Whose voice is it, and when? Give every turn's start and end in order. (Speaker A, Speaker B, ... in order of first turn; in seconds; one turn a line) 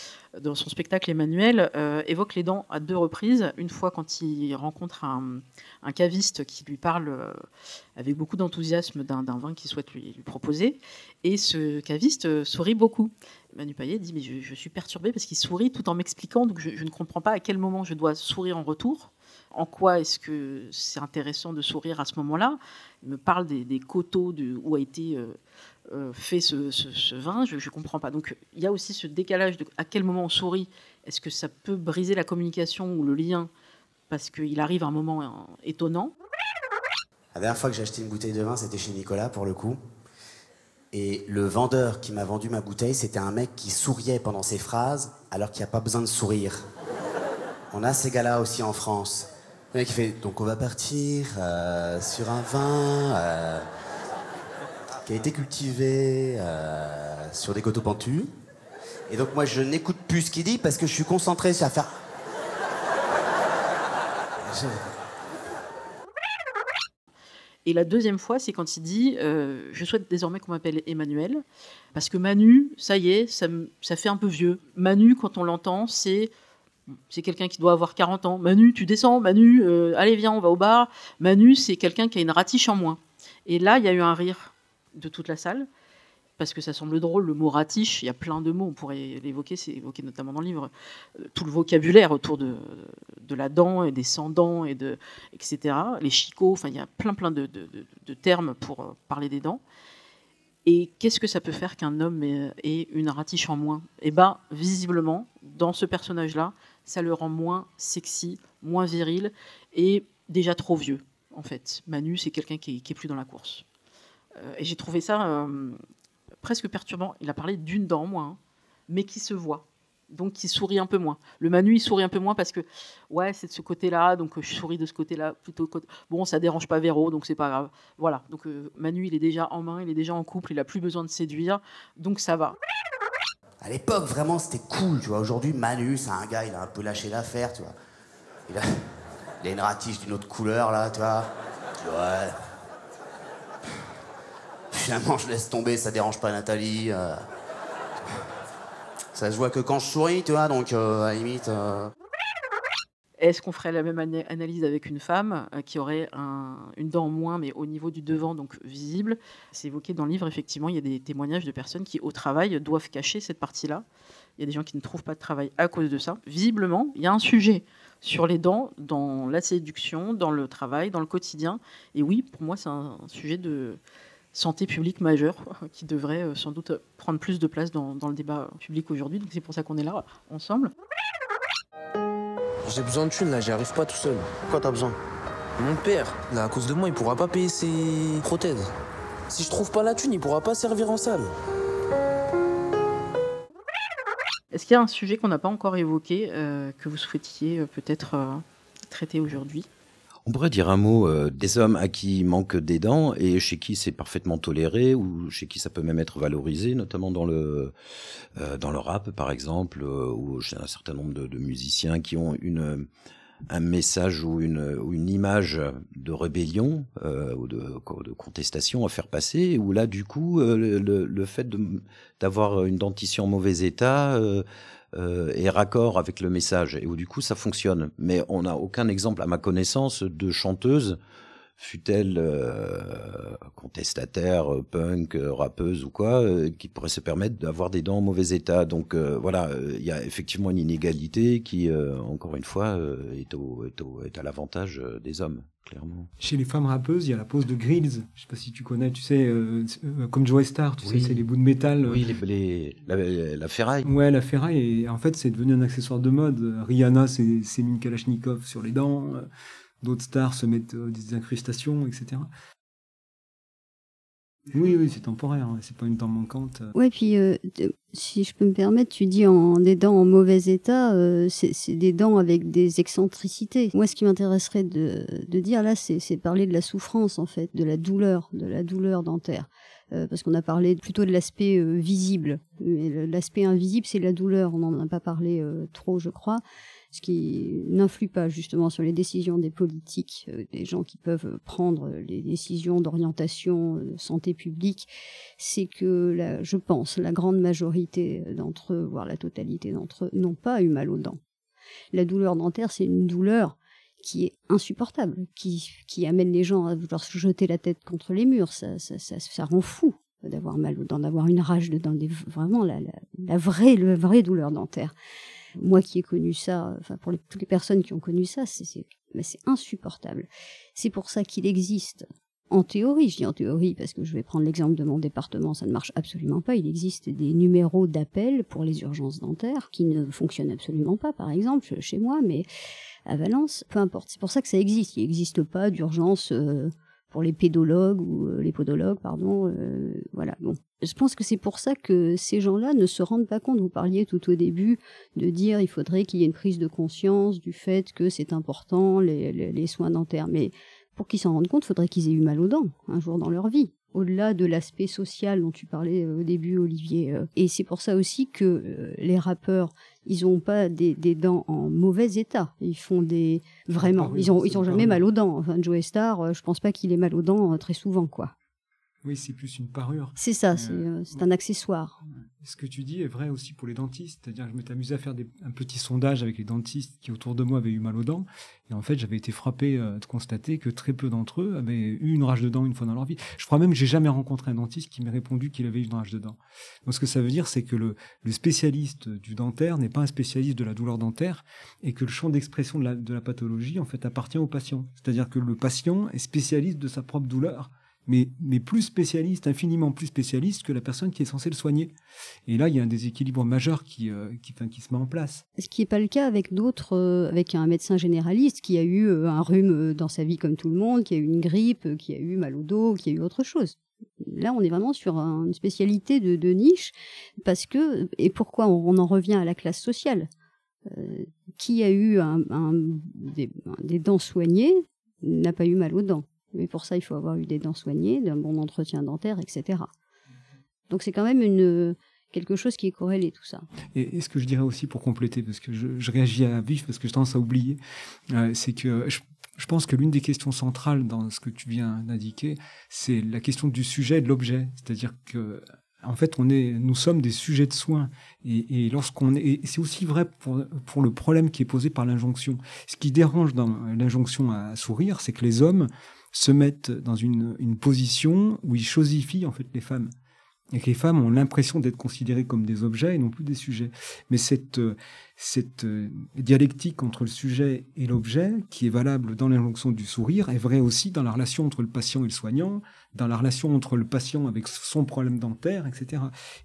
Speaker A: 0.4-7.4
Speaker A: 8.0-25.4
Speaker A: 25.9-33.5
Speaker A: 34.1-36.1
Speaker B: 37.3-39.8
Speaker B: 40.9-46.6
Speaker B: 47.7-53.6
Speaker B: 55.0-58.3
Speaker B: 59.1-62.0
Speaker B: 64.4-64.8
Speaker A: 67.6-71.4
Speaker A: 71.9-76.3
Speaker A: 77.1-85.7
Speaker A: 86.4-99.6
Speaker A: 100.6-113.6
Speaker A: 114.4-115.8
Speaker A: 116.4-118.4
Speaker A: 118.9-132.6
Speaker B: 133.6-137.7
Speaker B: 138.5-141.3
Speaker B: 141.8-142.3
Speaker B: 144.7-147.2
Speaker B: 149.1-151.9
Speaker A: 153.2-163.8
Speaker A: 164.4-173.8
Speaker A: 174.3-180.7
Speaker C: 182.6-184.9
Speaker C: 185.6-188.7
Speaker C: 189.3-191.3
Speaker A: 194.5-199.7
Speaker D: 200.2-207.7
Speaker D: 208.3-212.9
Speaker D: 213.5-231.0
Speaker D: 231.6-246.1
Speaker E: 246.2-252.0
Speaker D: 250.8-251.2
Speaker D: 251.8-253.9
Speaker E: 253.8-259.3
Speaker E: 259.8-262.3
Speaker E: 264.5-266.7
Speaker F: 266.7-301.2
Speaker F: 301.9-314.9
Speaker F: 315.6-332.4
Speaker F: 333.1-368.3
Speaker E: 363.8-365.0
Speaker E: 369.0-371.2
Speaker F: 370.2-372.0
Speaker E: 372.4-401.9
Speaker E: 402.5-405.4
Speaker F: 405.6-420.3
Speaker F: 420.9-429.9
Speaker F: 430.9-433.6
Speaker E: 433.9-437.8
Speaker E: 438.3-460.1
Speaker E: 460.7-476.3